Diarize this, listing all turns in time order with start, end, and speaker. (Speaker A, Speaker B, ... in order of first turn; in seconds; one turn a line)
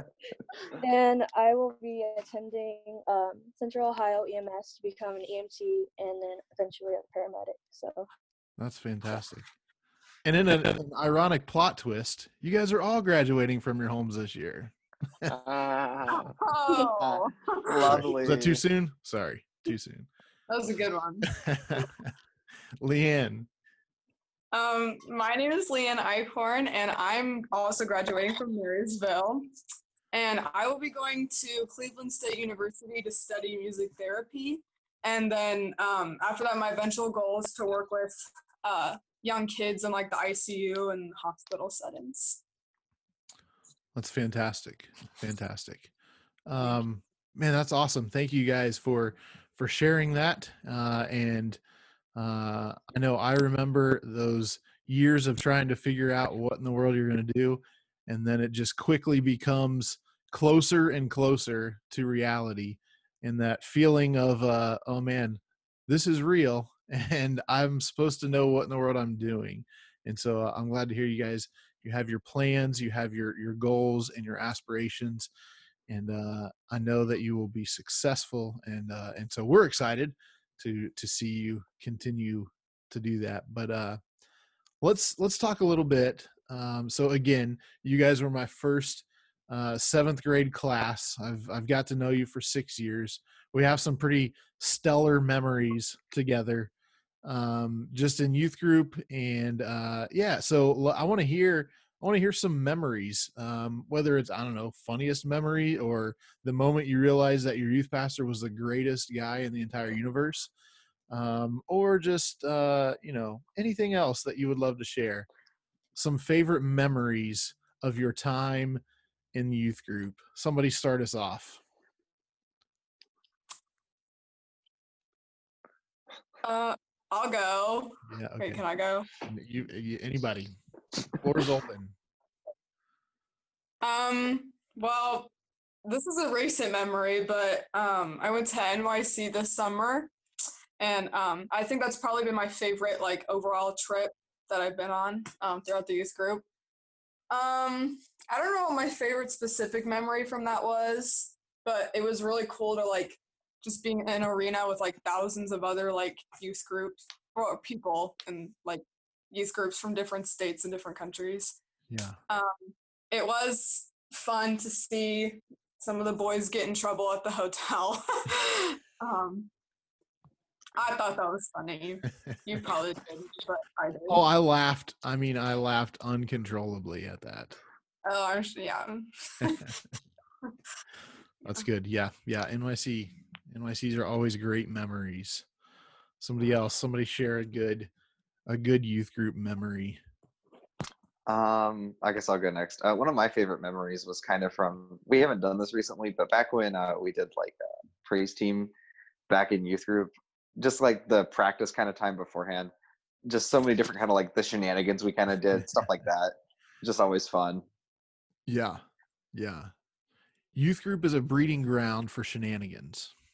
Speaker A: 0.7-8.1
Speaker B: 8.6-9.5
Speaker B: 10.2-15.3
Speaker C: 15.2-16.3
Speaker D: 16.1-18.0
Speaker C: 17.1-18.5
Speaker B: 17.9-20.1
Speaker E: 17.9-18.4
Speaker D: 20.5-21.3
Speaker B: 21.3-22.1
Speaker B: 22.8-23.5
Speaker D: 24.5-29.5
Speaker D: 30.1-42.4
Speaker B: 43.9-45.9
Speaker B: 46.5-51.6
Speaker B: 52.1-75.3
Speaker B: 75.9-84.0
Speaker B: 84.8-96.7
Speaker B: 97.2-110.5
Speaker B: 111.1-115.3
Speaker B: 115.9-118.8
Speaker B: 119.3-121.6
Speaker D: 126.4-129.1
Speaker B: 128.1-128.6
Speaker B: 129.2-130.6
Speaker B: 131.2-132.0
Speaker D: 133.8-135.3
Speaker D: 135.8-140.1
Speaker D: 140.8-146.4
Speaker D: 147.3-161.6
Speaker B: 161.9-162.2
Speaker D: 162.3-169.5
Speaker D: 170.8-174.2
Speaker B: 174.1-177.6
Speaker D: 178.1-179.7
Speaker B: 179.4-179.7
Speaker B: 181.4-185.5
Speaker B: 186.2-187.9
Speaker B: 188.5-190.0
Speaker E: 191.3-198.7
Speaker E: 199.3-202.7
Speaker E: 203.3-207.6
Speaker B: 205.6-205.8
Speaker B: 208.5-208.8
Speaker B: 209.3-209.7
Speaker B: 210.5-213.1